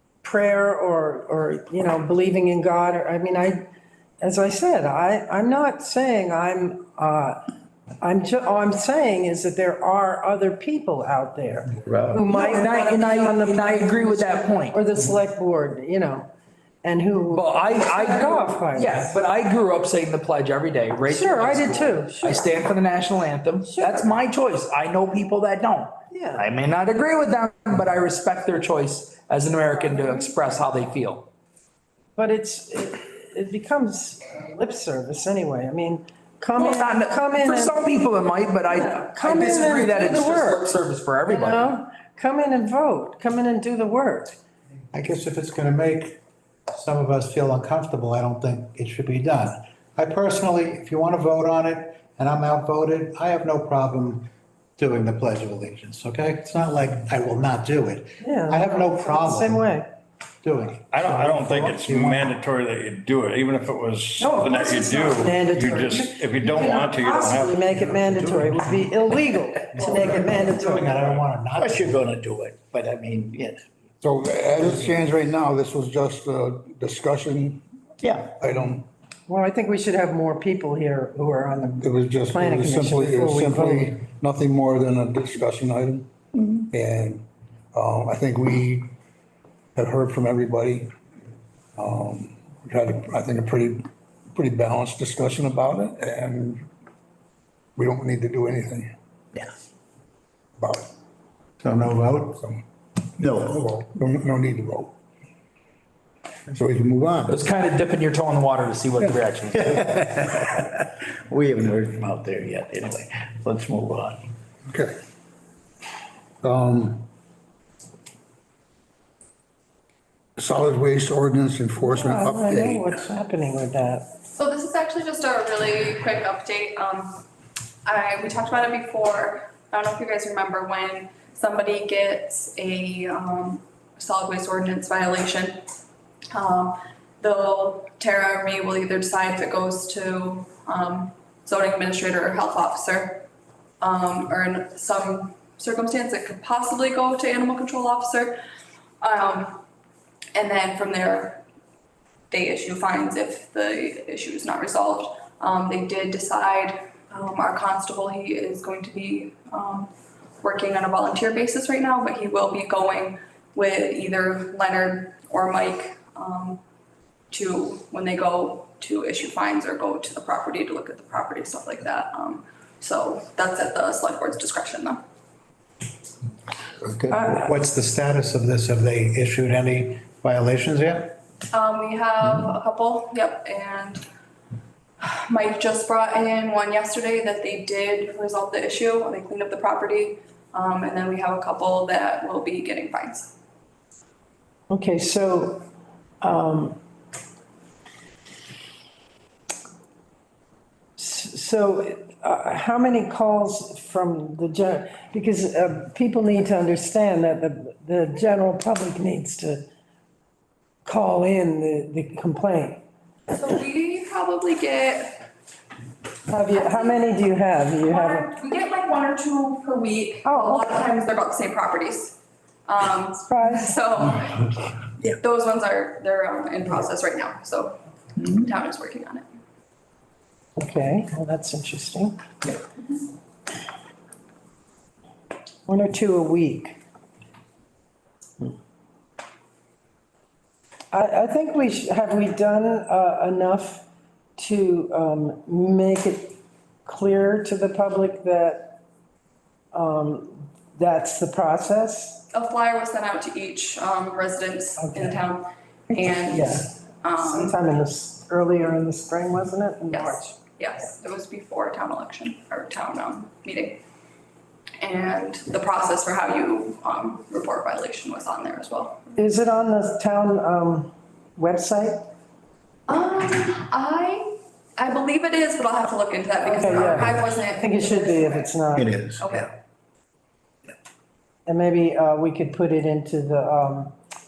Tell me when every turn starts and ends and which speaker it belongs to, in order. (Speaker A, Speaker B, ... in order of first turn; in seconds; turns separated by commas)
Speaker A: 0.2-3.7, Speaker A: 4.2-7.5, Speaker A: 8.0-16.3, Speaker B: 11.8-12.4, Speaker C: 12.3-14.8, Speaker A: 16.8-19.2, Speaker C: 17.3-31.3, Speaker A: 21.1-22.5, Speaker A: 23.6-24.2, Speaker A: 26.1-26.5, Speaker A: 29.7-30.3, Speaker A: 32.1-37.8, Speaker C: 36.5-41.8, Speaker A: 38.7-40.7, Speaker A: 41.3-44.4, Speaker D: 44.9-46.2, Speaker D: 46.7-59.8, Speaker A: 58.2-59.9, Speaker D: 60.4-62.3, Speaker E: 60.9-68.0, Speaker A: 64.2-70.9, Speaker D: 67.8-68.7, Speaker D: 69.7-72.0, Speaker B: 71.5-73.7, Speaker F: 74.0-77.6, Speaker B: 74.6-74.9, Speaker B: 78.0-78.4, Speaker F: 78.3-78.9, Speaker A: 79.3-84.0, Speaker F: 81.8-88.9, Speaker F: 89.8-90.9, Speaker F: 91.8-96.7, Speaker F: 97.8-98.9, Speaker F: 100.6-100.9, Speaker D: 101.6-102.4, Speaker F: 102.3-102.6, Speaker B: 103.2-103.7, Speaker F: 103.3-104.9, Speaker F: 106.5-107.4, Speaker C: 107.3-109.9, Speaker B: 109.5-114.2, Speaker F: 114.7-115.0, Speaker F: 116.4-117.0, Speaker F: 120.4-122.9, Speaker A: 121.8-124.1, Speaker G: 124.3-127.2, Speaker G: 127.9-135.6, Speaker G: 136.3-143.3, Speaker G: 143.8-148.4, Speaker G: 149.0-149.6, Speaker G: 150.3-151.4, Speaker G: 152.3-159.9, Speaker G: 160.4-166.6, Speaker G: 167.3-175.0, Speaker B: 176.8-177.2, Speaker A: 177.1-177.5, Speaker D: 177.4-181.2, Speaker G: 181.5-184.1, Speaker G: 185.0-193.3, Speaker A: 194.7-195.7, Speaker A: 196.2-196.8, Speaker A: 201.0-209.7, Speaker A: 210.8-212.8, Speaker G: 213.3-215.2, Speaker A: 216.3-218.3, Speaker G: 216.5-217.0, Speaker G: 217.8-229.3, Speaker A: 220.2-220.8, Speaker A: 223.3-223.8, Speaker A: 230.6-232.2, Speaker A: 235.7-236.8, Speaker A: 240.9-243.8, Speaker A: 244.4-248.8, Speaker A: 249.7-252.3, Speaker G: 252.3-257.6, Speaker A: 254.8-255.2, Speaker A: 255.9-260.4, Speaker G: 259.9-263.8, Speaker G: 264.8-269.1, Speaker A: 269.1-272.1, Speaker G: 272.9-278.5, Speaker A: 276.4-278.9, Speaker B: 278.7-279.5, Speaker G: 279.2-279.5, Speaker A: 281.5-284.0